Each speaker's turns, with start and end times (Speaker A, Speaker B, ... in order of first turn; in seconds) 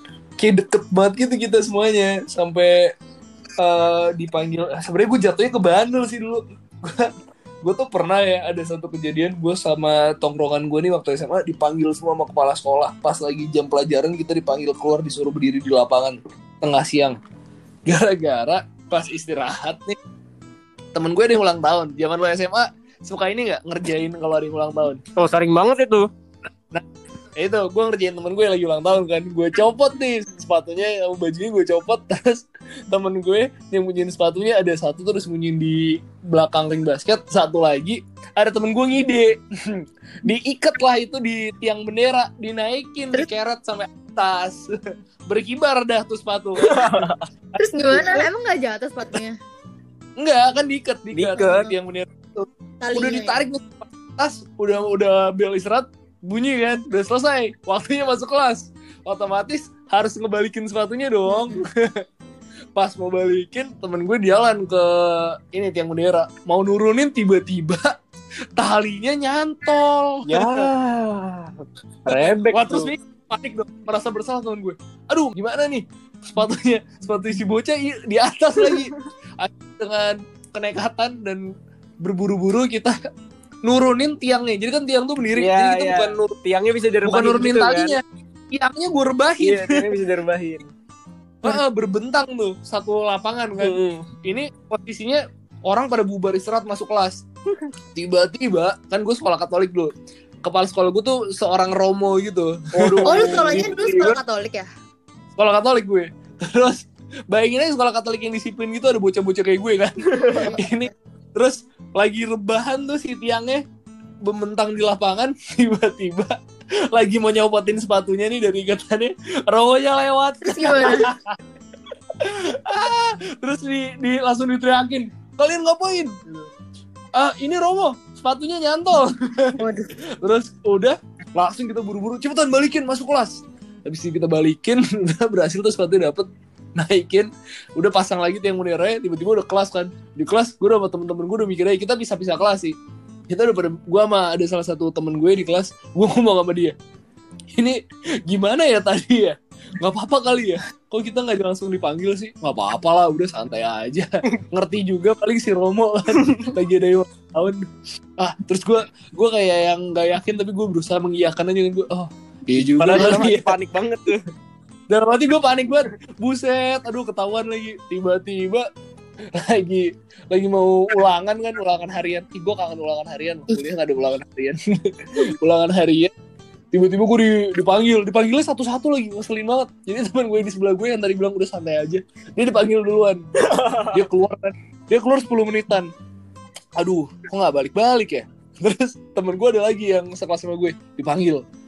Speaker A: 0.4-2.9, 3.6-17.2, 17.9-20.0, 20.9-25.0, 27.4-44.7, 45.3-47.1, 47.8-48.3, 50.2-62.0, 62.8-68.0, 68.6-70.7, 72.1-81.4, 82.0-83.0, 83.6-86.3, 87.0-89.9, 91.4-97.2, 98.0-99.9, 100.5-104.2, 105.4-113.6, 114.2-116.4, 116.9-121.4, 122.2-126.5, 127.2-129.6, 130.2-142.8, 143.3-146.8, 147.5-163.6, 164.9-168.7, 169.3-176.1, 176.7-183.2, 183.9-185.9, 186.8-191.4
Speaker B: 25.2-26.1, 46.6-47.2, 51.1-51.8, 70.3-72.9, 85.4-88.0, 89.4-90.7, 93.6-94.1, 102.7-103.8, 110.1-110.5, 156.2-156.5, 162.8-164.2, 183.4-184.0
Speaker C: 47.6-49.4, 52.8-53.4, 61.3-61.6, 103.0-104.7, 110.2-110.9, 120.4-121.1, 129.6-129.9